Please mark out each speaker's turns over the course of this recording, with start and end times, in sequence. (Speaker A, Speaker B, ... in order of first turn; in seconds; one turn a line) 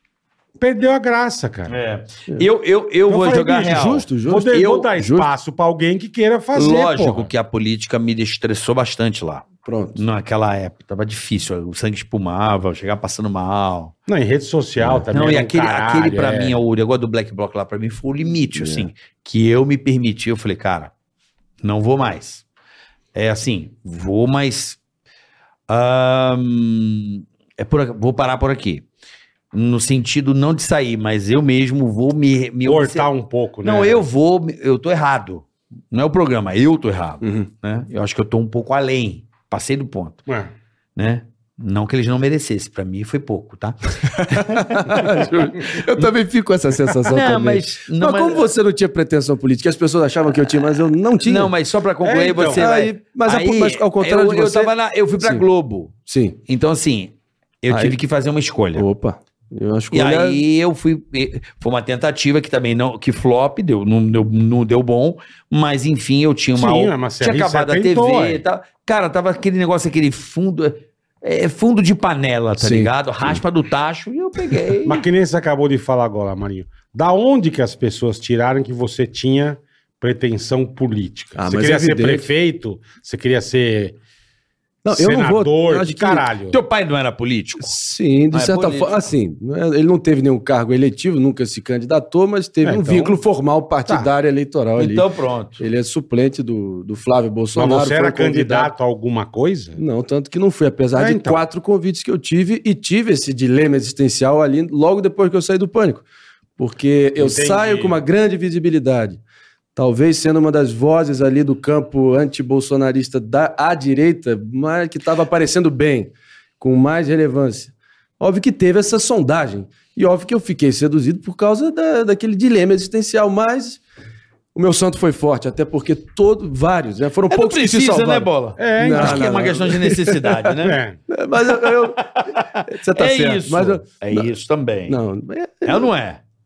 Speaker A: 0.6-1.7
Speaker B: 1.7-4.8
Speaker A: 3.1-7.3
Speaker C: 3.6-5.3
Speaker B: 6.5-13.9
Speaker C: 9.6-10.0
Speaker A: 14.1-16.6
Speaker B: 15.1-20.9
Speaker C: 18.5-18.9
Speaker B: 21.6-22.4
Speaker B: 23.1-24.8
Speaker B: 25.7-28.8
Speaker B: 29.5-33.1
Speaker A: 32.6-34.0
Speaker B: 33.6-40.2
Speaker C: 37.2-37.5
Speaker A: 40.3-40.5
Speaker B: 41.0-45.0
Speaker C: 44.2-51.5
Speaker B: 47.1-48.5
Speaker B: 51.2-55.9
Speaker A: 52.0-52.6
Speaker C: 52.5-55.5
Speaker C: 56.0-56.4
Speaker B: 56.5-58.9
Speaker C: 57.7-58.0
Speaker C: 58.7-60.4
Speaker B: 59.9-75.0
Speaker A: 66.5-68.4
Speaker C: 72.6-73.4
Speaker A: 74.8-84.0
Speaker C: 81.3-82.3
Speaker C: 84.8-86.3
Speaker A: 84.9-86.6
Speaker B: 86.5-87.7
Speaker C: 87.6-95.0
Speaker B: 88.3-89.0
Speaker A: 92.6-93.2
Speaker B: 94.8-95.6
Speaker C: 95.6-98.7
Speaker A: 97.5-99.8
Speaker C: 99.8-106.0
Speaker A: 101.0-101.4
Speaker C: 106.6-109.2
Speaker A: 107.2-108.0
Speaker C: 109.8-123.8
Speaker C: 124.5-130.4
Speaker B: 127.3-130.8
Speaker A: 128.6-129.5
Speaker A: 130.6-131.0
Speaker C: 131.1-132.1
Speaker B: 132.0-135.0
Speaker C: 132.7-134.3
Speaker C: 134.9-135.9
Speaker B: 135.6-136.2